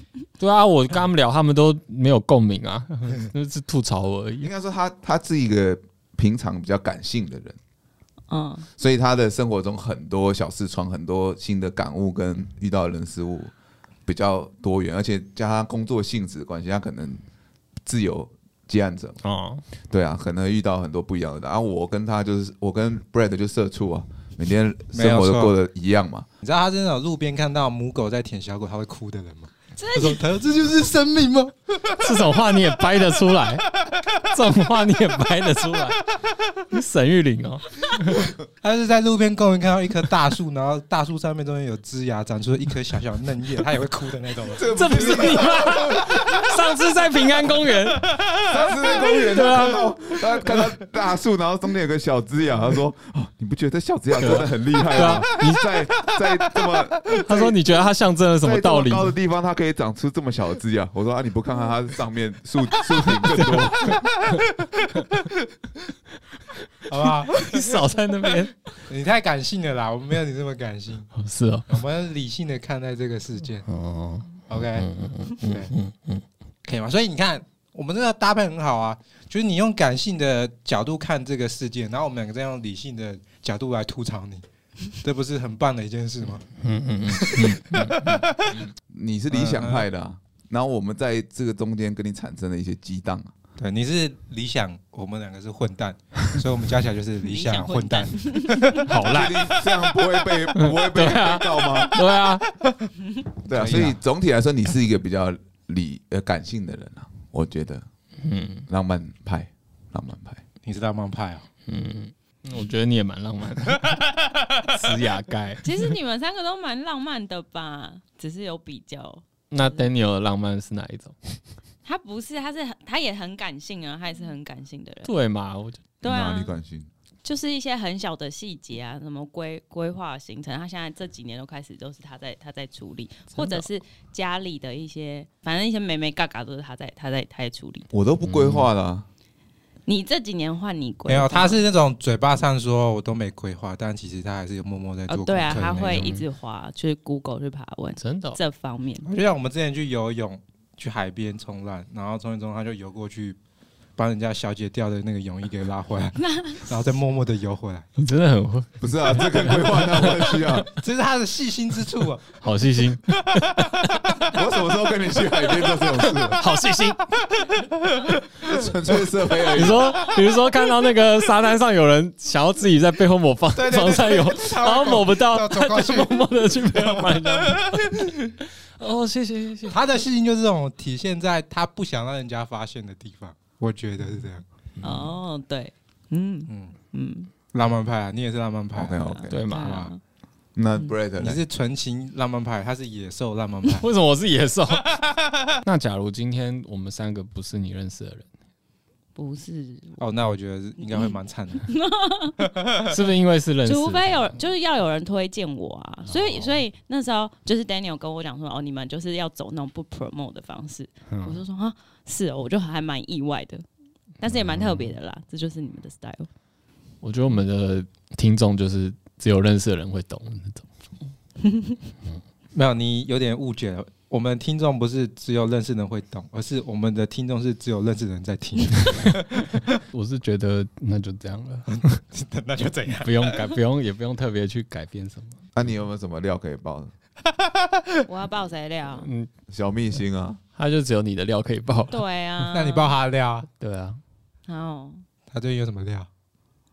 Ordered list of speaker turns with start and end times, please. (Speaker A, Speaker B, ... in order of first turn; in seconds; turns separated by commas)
Speaker A: 0.4-4.5, Speaker B: 4.4-7.6, Speaker C: 8.3-8.7, Speaker B: 8.8-13.5, Speaker B: 14.1-17.2, Speaker B: 17.9-19.2, Speaker A: 19.2-19.6, Speaker B: 19.8-26.3, Speaker D: 24.9-25.5, Speaker D: 26.4-32.1, Speaker C: 29.8-30.2, Speaker A: 32.0-36.0, Speaker A: 36.7-38.3, Speaker D: 38.6-44.7, Speaker B: 44.5-46.4, Speaker A: 44.7-48.1, Speaker B: 48.5-57.5, Speaker A: 49.1-49.9, Speaker A: 54.2-55.7, Speaker A: 57.2-59.1, Speaker B: 58.4-64.0, Speaker A: 63.2-63.6, Speaker D: 63.9-64.4, Speaker D: 66.9-67.9, Speaker A: 67.4-68.8, Speaker D: 68.4-71.1, Speaker A: 71.2-71.8, Speaker D: 71.7-73.7, Speaker A: 73.7-76.2, Speaker D: 74.5-74.9, Speaker D: 75.4-75.7, Speaker D: 76.7-86.5, Speaker A: 86.6-88.2, Speaker D: 87.1-88.6, Speaker B: 88.6-93.3, Speaker D: 89.3-89.9, Speaker D: 93.6-99.0, Speaker C: 97.2-98.8, Speaker A: 98.8-99.6, Speaker B: 99.0-102.0, Speaker A: 100.5-102.5, Speaker B: 103.4-107.9, Speaker D: 103.5-104.0, Speaker A: 108.2-108.7, Speaker B: 108.7-110.4, Speaker D: 110.6-111.5, Speaker A: 111.7-114.0, Speaker A: 114.7-115.7, Speaker C: 115.6-119.9, Speaker A: 119.5-121.4, Speaker C: 121.8-125.1, Speaker A: 125.0-125.9, Speaker C: 126.0-126.5, Speaker B: 126.0-126.9, Speaker C: 127.2-137.9, Speaker A: 133.4-133.7, Speaker B: 137.9-139.1, Speaker A: 138.2-138.7, Speaker C: 139.9-141.6, Speaker D: 141.1-146.1, Speaker C: 145.1-149.1, Speaker A: 145.5-146.2, Speaker A: 148.0-148.4, Speaker D: 149.1-153.4, Speaker D: 154.0-157.9, Speaker C: 156.2-156.7, Speaker A: 158.0-160.7, Speaker B: 158.8-160.7, Speaker D: 160.8-162.4, Speaker A: 162.4-164.2, Speaker D: 163.3-164.4, Speaker B: 164.3-166.4, Speaker A: 166.3-167.0, Speaker D: 167.4-168.2, Speaker B: 168.4-170.1, Speaker A: 169.5-178.3, Speaker D: 173.5-178.3, Speaker A: 178.8-179.8, Speaker D: 179.7-184.4, Speaker C: 184.8-187.3, Speaker D: 186.5-186.8, Speaker D: 187.5-189.9, Speaker B: 188.7-189.4, Speaker C: 189.0-190.0, Speaker A: 189.3-189.9, Speaker B: 190.6-191.4, Speaker D: 191.2-193.9, Speaker A: 193.8-195.0, Speaker A: 195.6-198.3, Speaker C: 199.2-200.0, Speaker D: 200.0-201.7, Speaker C: 200.8-202.4, Speaker A: 202.9-204.2, Speaker C: 203.6-213.6, Speaker A: 206.1-206.6, Speaker A: 211.1-211.4, Speaker C: 214.2-216.3, Speaker A: 214.3-214.9, Speaker A: 217.0-220.7, Speaker C: 221.5-221.8, Speaker D: 222.5-229.7, Speaker A: 229.9-232.0, Speaker D: 231.7-233.5, Speaker A: 233.0-235.4, Speaker B: 235.6-236.9, Speaker D: 237.4-237.8, Speaker C: 238.1-239.1, Speaker A: 239.0-239.3, Speaker B: 239.5-240.4, Speaker A: 240.6-242.0, Speaker C: 241.9-242.9, Speaker D: 242.5-243.5, Speaker A: 243.6-244.0, Speaker C: 244.5-245.0, Speaker D: 245.3-246.1